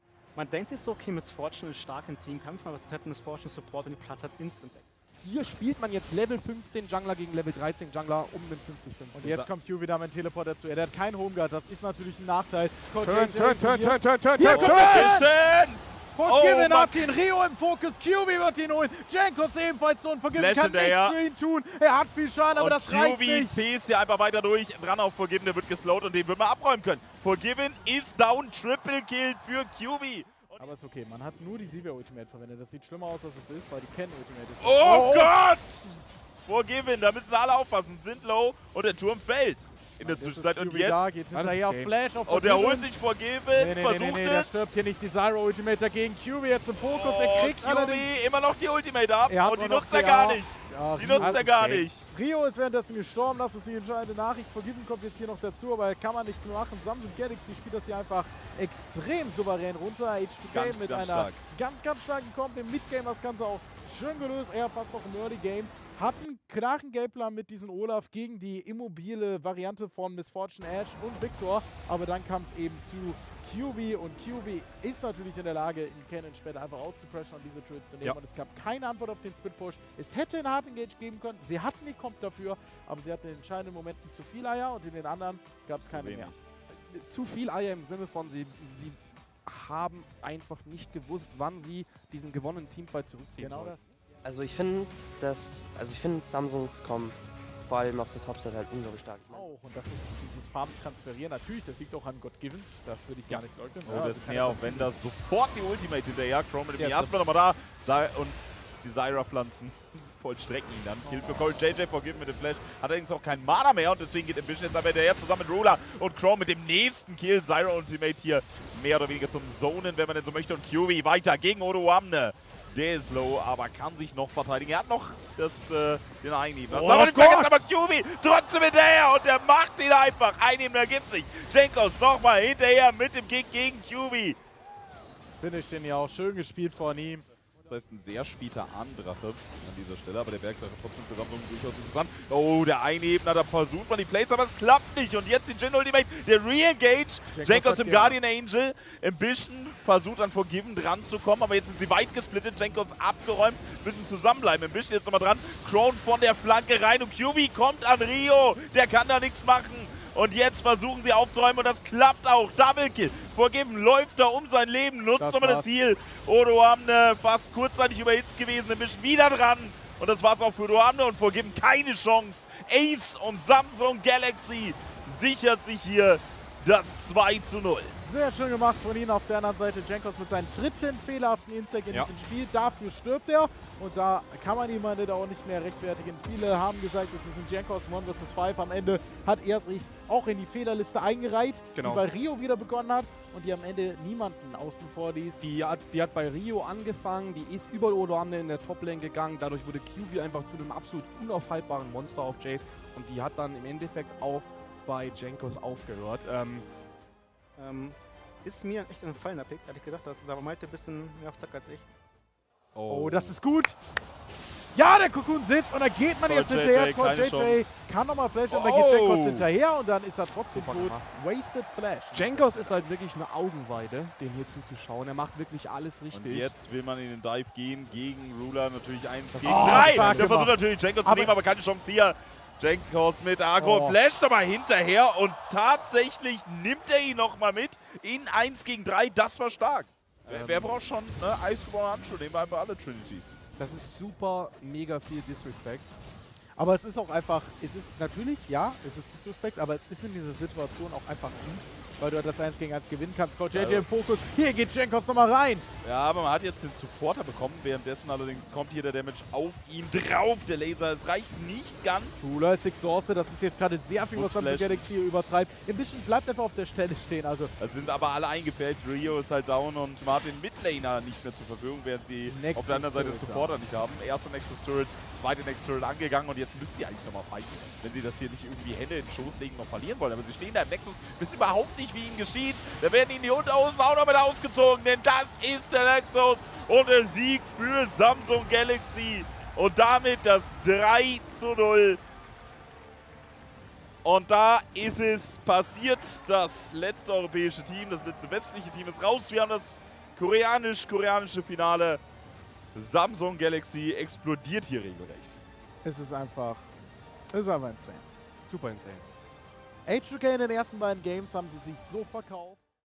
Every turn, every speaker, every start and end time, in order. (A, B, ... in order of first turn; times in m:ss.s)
0:00.4-0:04.9 A
0:05.2-0:09.3 B
0:09.2-0:15.3 C
0:09.2-0:09.5 D
0:13.0-0:15.1 B
0:14.4-0:17.1 D
0:16.1-0:23.7 C
0:20.3-0:21.2 D
0:22.5-0:30.7 D
0:30.6-0:35.4 C
0:34.6-0:41.1 D
0:40.0-0:42.9 C
0:41.3-0:41.9 B
0:42.3-0:44.7 D
0:43.5-0:48.1 C
0:46.8-0:52.0 D
0:49.3-0:51.5 C
0:51.2-0:51.9 B
0:52.0-1:26.4 C
1:00.5-1:01.4 D
1:25.8-1:26.4 D
1:26.9-1:33.8 B
1:33.4-1:33.9 C
1:34.2-1:39.5 E
1:39.3-1:44.9 C
1:43.3-2:14.4 D
1:46.8-1:47.1 C
1:51.1-1:51.4 C
2:06.7-2:07.6 C
2:15.4-2:17.3 C
2:17.6-2:58.0 D
2:27.3-2:28.2 C
2:45.2-2:45.7 C
2:58.0-3:15.4 C
3:11.8-3:12.0 B
3:15.4-3:26.7 B
3:27.6-3:31.9 A
3:32.8-3:33.4 D
3:32.9-3:33.8 C
3:34.7-3:42.7 C
3:36.2-3:37.7 D
3:38.5-3:39.5 D
3:40.5-3:41.0 B
3:42.1-3:46.5 B
3:46.1-4:03.2 D
3:49.4-3:51.4 C
3:49.4-3:50.3 B
3:53.6-3:54.0 C
4:00.2-4:00.7 B
4:03.6-4:06.0 B
4:06.6-4:15.7 C
4:13.5-4:13.9 D
4:15.8-4:22.3 D
4:22.2-4:27.5 C
4:24.1-4:24.9 D
4:27.6-4:52.0 D
4:32.3-4:33.6 C
4:54.0-5:02.0 D
5:02.7-5:05.4 D
5:05.8-5:06.7 C
5:07.3-5:08.1 C
5:08.5-5:09.1 B
5:09.9-5:12.6 C